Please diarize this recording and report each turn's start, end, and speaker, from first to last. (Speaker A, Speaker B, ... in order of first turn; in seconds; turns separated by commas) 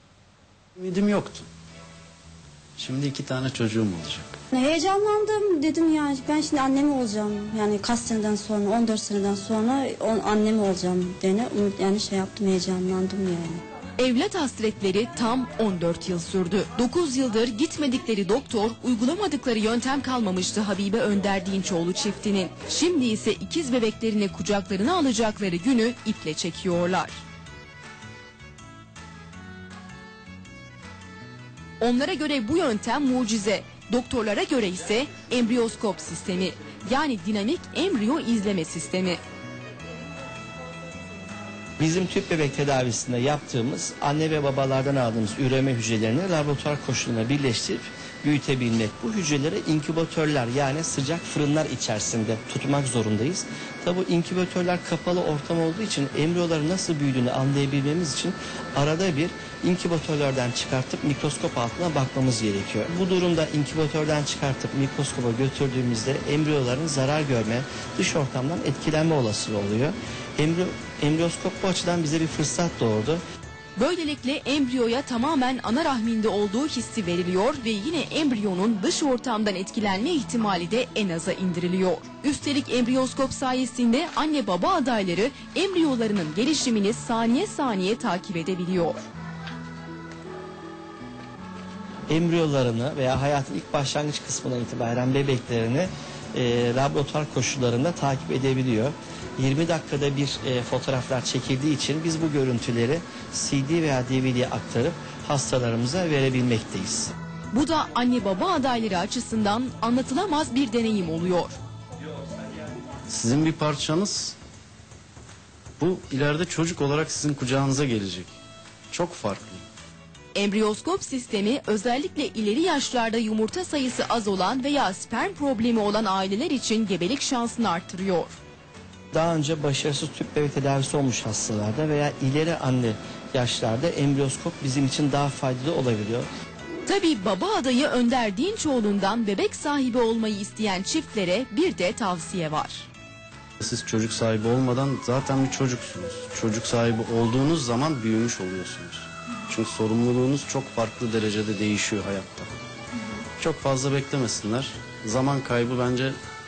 Speaker A: 0.8-1.5, Speaker A: 2.8-4.3, Speaker B: 4.5-13.6, Speaker C: 14.0-27.2, Speaker C: 31.8-39.2, Speaker D: 41.8-73.2, Speaker C: 73.8-89.0, Speaker D: 92.1-107.1, Speaker C: 107.5-111.6, Speaker A: 113.1-114.3, Speaker A: 115.8-118.3, Speaker A: 118.9-119.6, Speaker C: 120.3-128.4, Speaker D: 129.1-136.3, Speaker C: 136.8-142.9, Speaker A: 143.6-152.5, Speaker A: 153.4-156.2